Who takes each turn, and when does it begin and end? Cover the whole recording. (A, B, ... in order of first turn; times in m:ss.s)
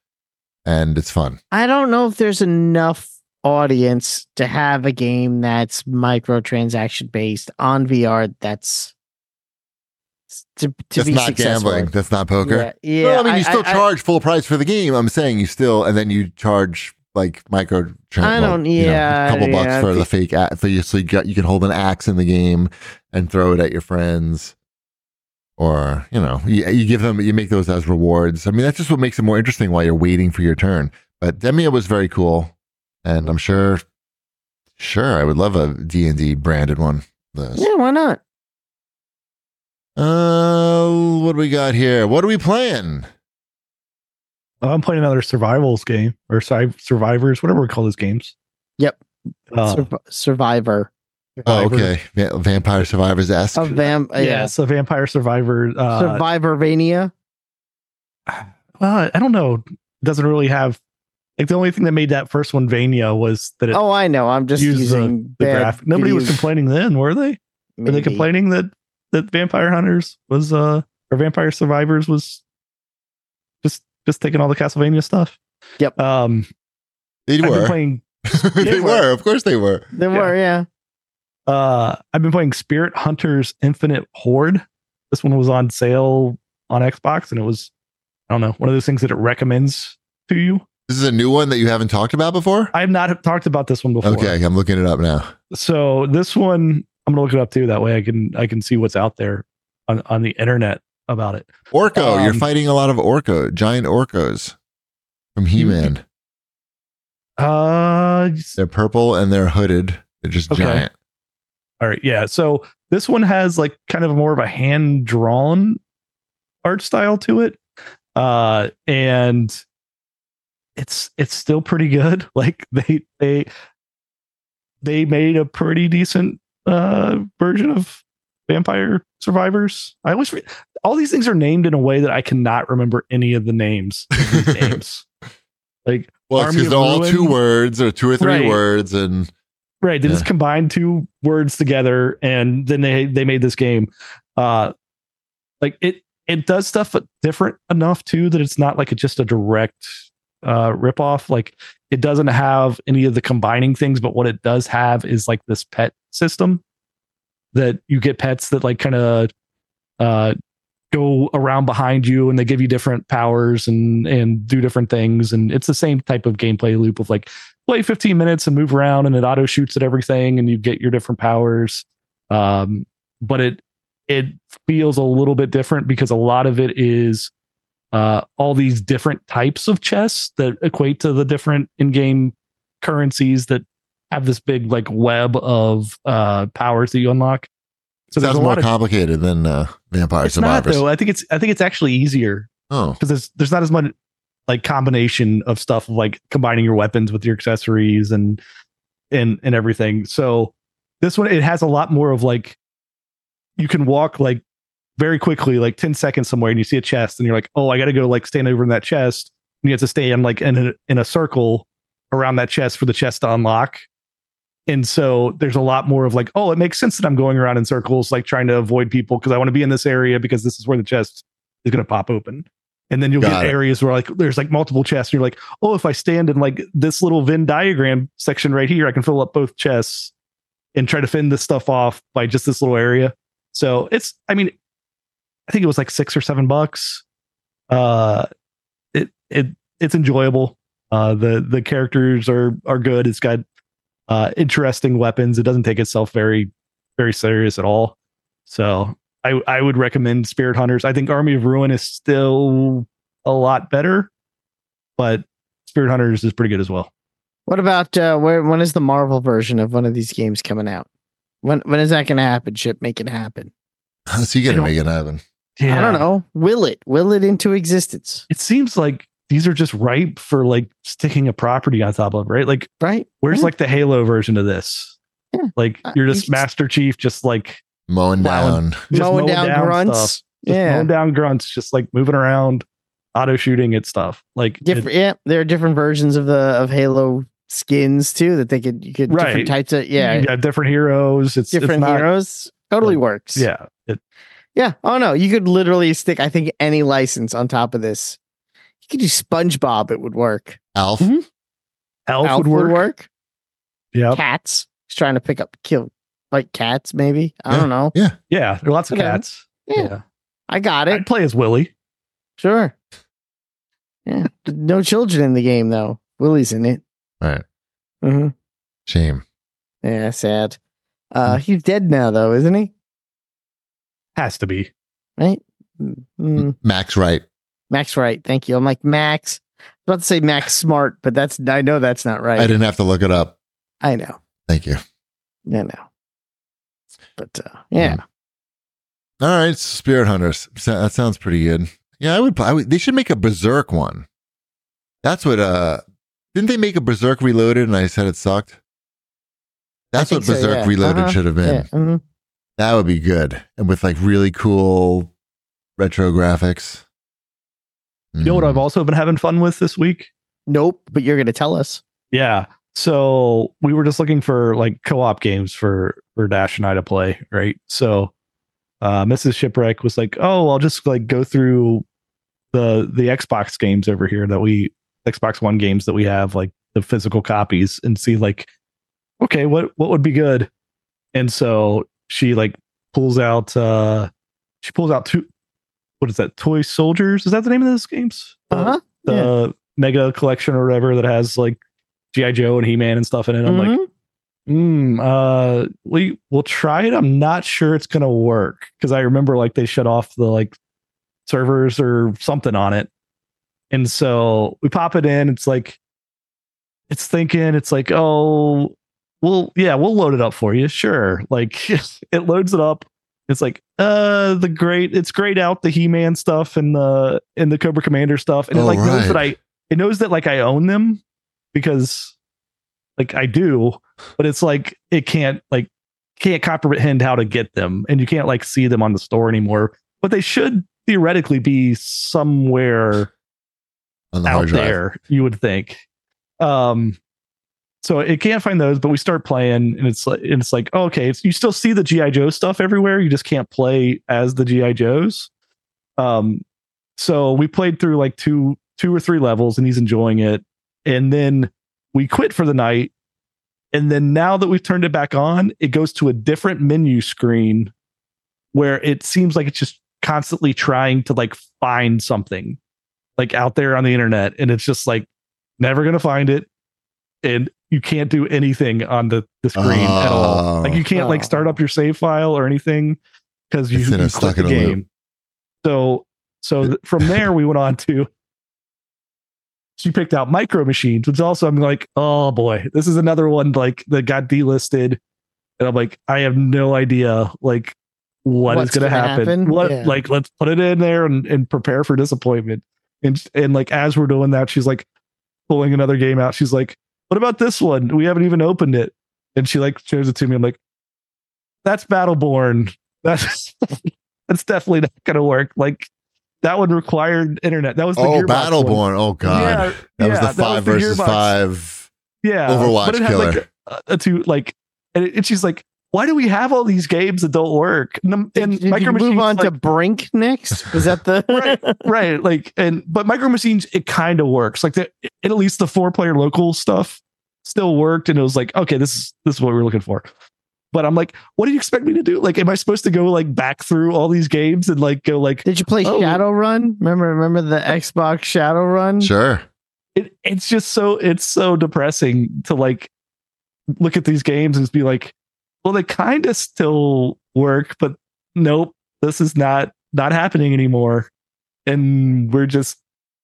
0:00.6-0:01.4 A
0:01.5-0:08.9 B
0:10.3-0:13.8 B
0:11.0-0:24.5 A
0:18.2-0:20.1 B
0:25.6-0:33.8 A
0:34.8-0:37.7 A
0:37.6-0:38.2 B
0:40.0-0:43.1 A
0:44.6-0:48.3 C
0:49.5-0:49.9 C
0:49.6-0:51.5 B
0:51.4-0:53.8 A
0:51.5-0:51.9 C
0:53.5-0:54.5 B
0:54.2-0:56.2 C
0:55.9-0:57.1 B
0:58.3-1:00.8 C
1:01.4-1:03.8 C
1:03.7-1:06.5 B
1:04.6-1:12.4 C
1:07.8-1:08.2 B
1:13.6-1:15.4 C
1:16.0-1:16.5 C
1:17.3-1:17.8 A
1:17.4-1:18.0 C
1:18.3-1:19.9 A
1:18.6-1:19.0 C
1:19.9-1:20.6 B
1:21.5-1:27.7 C
1:28.3-1:30.6 C
1:30.9-1:32.7 A
1:32.7-1:34.4 C
1:34.0-1:35.3 A
1:35.5-1:42.5 C
1:41.7-1:44.6 A
1:45.4-1:46.0 A
1:45.6-1:45.9 C
1:47.4-1:48.6 C
1:48.6-1:50.9 A
1:50.5-1:50.8 C
1:51.8-1:55.8 C
1:56.6-1:57.6 C
1:58.1-1:59.6 C
2:00.8-2:03.5 C
2:04.8-2:15.0 C
2:14.3-2:14.7 A
2:15.8-2:17.4 C
2:16.3-2:19.3 A
2:18.2-2:18.6 C
2:19.8-2:24.7 C
2:25.6-2:36.6 C
2:37.5-2:39.3 C
2:40.0-2:40.3 C
2:40.9-2:57.3 C
2:57.9-3:07.5 C
3:08.1-3:08.7 C
3:08.2-3:10.8 A
3:10.2-3:13.9 C
3:12.7-3:13.0 A
3:14.5-3:18.4 C
3:19.1-3:22.6 C
3:23.6-3:24.4 C
3:25.0-3:33.8 C
3:34.7-3:50.1 C
3:43.2-3:43.6 A
3:50.7-3:54.5 C
3:55.5-3:57.0 C
3:57.7-3:58.3 C
3:58.9-4:03.4 C
4:04.1-4:07.9 C
4:08.5-4:14.1 C
4:15.0-4:16.9 C
4:17.5-4:20.8 B
4:21.4-4:23.5 B
4:24.1-4:25.2 A
4:25.6-4:26.0 C
4:25.7-4:28.2 B
4:28.3-4:32.7 C
4:32.8-4:33.5 B
4:33.2-4:35.0 C
4:35.3-4:36.4 B
4:35.6-4:37.6 C
4:37.9-4:38.8 A
4:38.2-4:44.9 C
4:38.9-4:40.9 B
4:44.6-4:50.3 B
4:49.1-4:52.1 C
4:51.5-4:53.4 B
4:52.8-4:54.0 C
4:54.5-4:58.2 B
4:58.8-5:00.6 B
5:00.7-5:01.1 A
5:01.0-5:01.2 C
5:02.1-5:02.8 C
5:02.2-5:03.1 B
5:03.9-5:04.2 C
5:04.1-5:07.9 B
5:07.5-5:08.2 A
5:08.3-5:10.0 C
5:08.9-5:09.9 B
5:10.5-5:11.0 B
5:10.9-5:11.7 C
5:12.4-5:12.7 B
5:14.0-5:16.8 B
5:18.0-5:18.3 B
5:18.9-5:19.2 A
5:19.8-5:20.6 B
5:21.1-5:22.7 B
5:24.2-5:24.7 C
5:25.2-5:26.5 B
5:26.4-5:27.2 A
5:27.7-5:32.5 B
5:32.4-5:33.3 A
5:33.8-5:34.2 B
5:34.5-5:34.8 A
5:35.5-5:35.8 B
5:37.2-5:38.0 B
5:39.2-5:44.0 A
5:45.0-5:48.6 A
5:49.9-5:51.7 A
5:50.0-5:52.0 B
5:52.6-5:55.1 A
5:55.8-5:56.8 A
5:58.1-5:58.6 A
5:58.2-6:00.1 C
6:00.5-6:01.8 B
6:02.1-6:08.1 C
6:08.8-6:11.8 C
6:12.5-6:18.5 C
6:19.2-6:20.5 C
6:21.1-6:24.1 C
6:24.6-6:25.3 C
6:26.0-6:31.6 C
6:28.5-6:29.3 B
6:32.1-6:33.7 C
6:33.4-6:33.9 B
6:34.5-6:40.5 C
6:41.2-6:42.9 C
6:43.7-6:45.8 C
6:46.9-7:01.0 C
6:58.5-6:59.3 A
7:01.5-7:02.1 C
7:03.0-7:13.1 C
7:14.1-7:14.8 A
7:14.2-7:15.8 C
7:16.4-7:17.0 C
7:17.8-7:25.3 C
7:26.0-7:26.4 C
7:27.0-7:32.9 C
7:33.7-7:37.7 C
7:38.5-7:42.6 C
7:43.2-7:45.1 C
7:45.6-7:46.5 C
7:47.2-7:53.0 C
7:49.6-7:50.8 A
7:50.9-7:51.6 B
7:53.5-7:54.8 C
7:53.7-7:54.8 A
7:55.6-7:58.1 C
7:56.6-7:57.3 A
7:59.8-8:05.0 C
8:05.6-8:14.8 C
8:08.5-8:10.0 B
8:15.5-8:20.6 C
8:21.6-8:25.9 C
8:26.4-8:31.3 C
8:28.0-8:31.9 A
8:32.2-8:39.5 C
8:32.5-8:33.4 A
8:38.3-8:41.8 B
8:41.3-8:50.1 C
8:50.7-8:56.2 C
8:55.4-8:59.1 B
8:59.0-8:59.4 A
8:59.9-9:02.9 C
9:03.8-9:11.1 C
9:11.6-9:12.8 C